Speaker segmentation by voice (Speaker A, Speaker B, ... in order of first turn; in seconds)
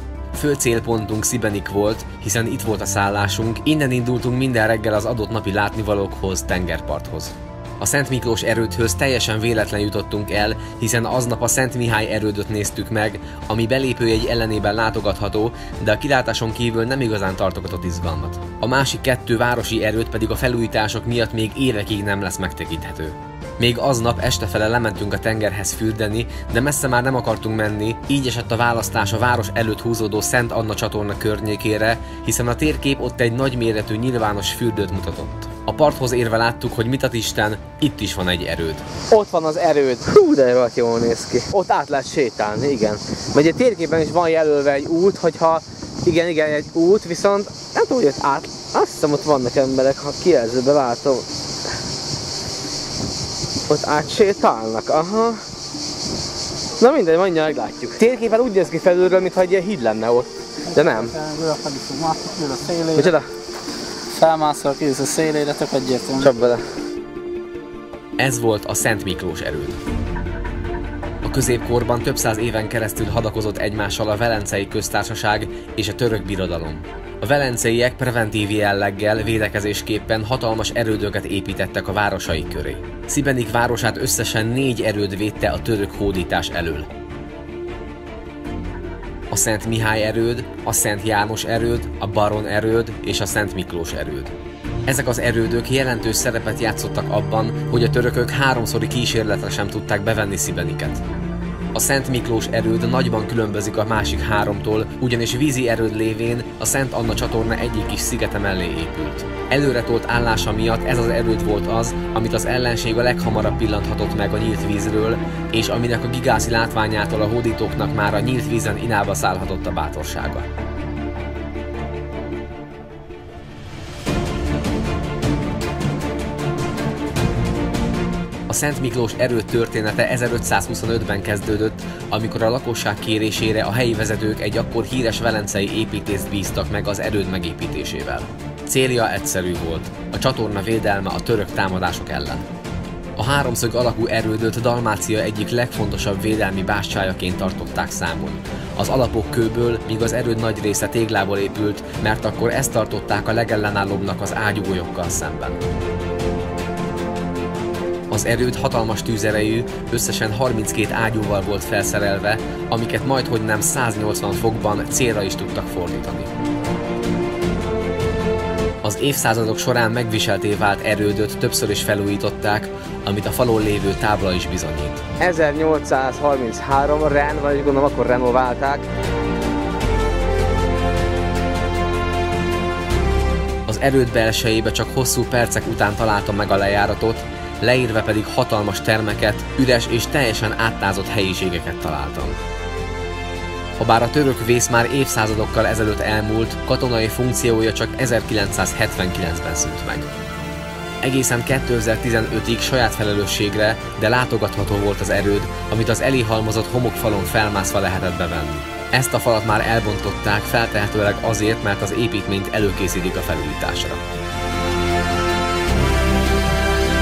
Speaker A: 0.3-38.9, 68.2-69.8, 71.2-86.9, 89.3-94.3, 94.9-101.0, 101.7-120.5, 128.5-142.4, 143.2-155.6, 158.1-166.3, 168.8-175.0, 183.7-192.4, 193.8-200.1, 201.0-214.0
Speaker B: 39.1-51.3, 53.7-55.4, 56.8-61.1, 62.9-63.3, 66.2-66.6, 175.2-178.8
Speaker C: 60.8-63.1, 64.1-66.3